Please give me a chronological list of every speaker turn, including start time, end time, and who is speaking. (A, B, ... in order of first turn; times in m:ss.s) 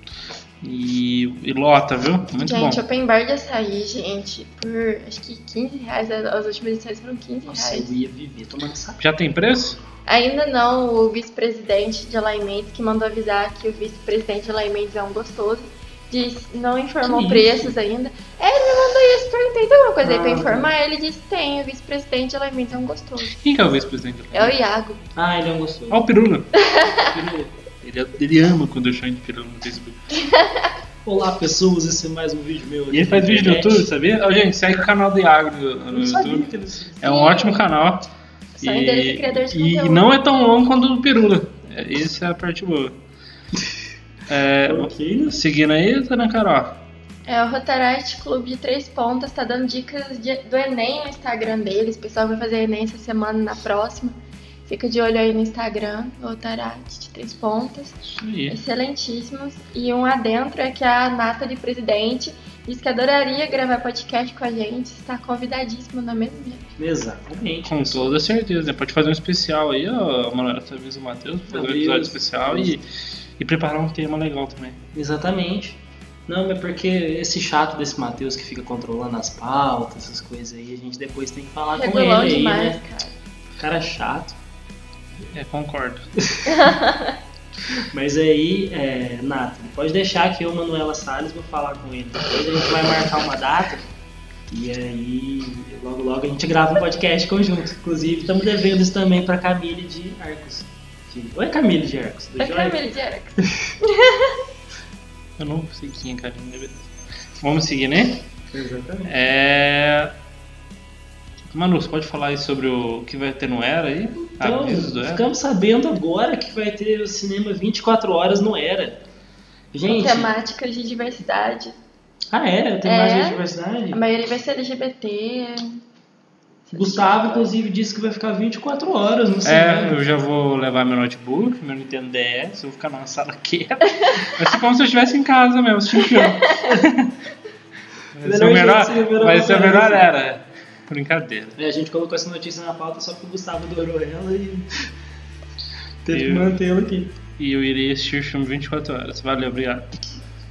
0:00.6-0:02.8 A
0:02.4-0:07.9 B
0:07.5-0:09.0 C
0:09.0-0:09.8 A
0:10.0-0:23.4 B
0:17.0-0:17.7 C
0:20.0-0:20.7 C
0:23.3-0:24.6 A
0:24.3-0:25.0 B
0:25.2-0:26.0 C
0:25.9-0:26.6 A
0:26.6-0:27.0 B
0:26.9-0:27.5 C
0:27.7-0:30.0 A
0:30.2-0:30.7 B
0:31.0-0:33.9 C
0:32.9-0:36.5 A
0:35.9-0:37.1 C
0:37.0-0:38.1 A
0:37.0-0:37.6 B
0:38.6-0:40.0 B
0:38.6-0:42.9 A
0:44.3-0:46.8 A
0:44.6-0:45.4 C
0:47.2-1:06.6 B
0:58.2-0:58.6 A
1:06.8-1:08.1 C
1:07.6-1:12.8 A
1:11.5-1:12.7 C
1:13.4-1:14.8 A
1:14.9-1:22.8 C
1:21.7-1:23.2 B
1:23.6-1:24.4 C
1:25.2-1:26.1 A
1:26.4-1:27.2 B
1:27.7-1:33.8 C
1:34.5-1:42.8 C
1:42.4-1:44.4 B
1:45.4-1:46.9 A
1:47.4-1:48.3 A
1:48.5-1:49.1 C
1:49.0-1:50.1 A
1:51.5-1:55.2 A
1:54.3-1:59.0 C
1:59.7-2:00.3 C
1:59.9-2:01.8 B
2:02.3-2:04.0 C
2:02.8-2:05.8 B
2:06.7-2:07.5 B
2:06.7-2:10.0 C
2:09.4-2:17.1 A
2:18.1-2:21.6 A
2:18.2-2:20.0 C
2:21.6-2:24.7 C
2:26.0-2:27.1 C
2:26.1-2:26.6 A
2:27.4-2:30.1 A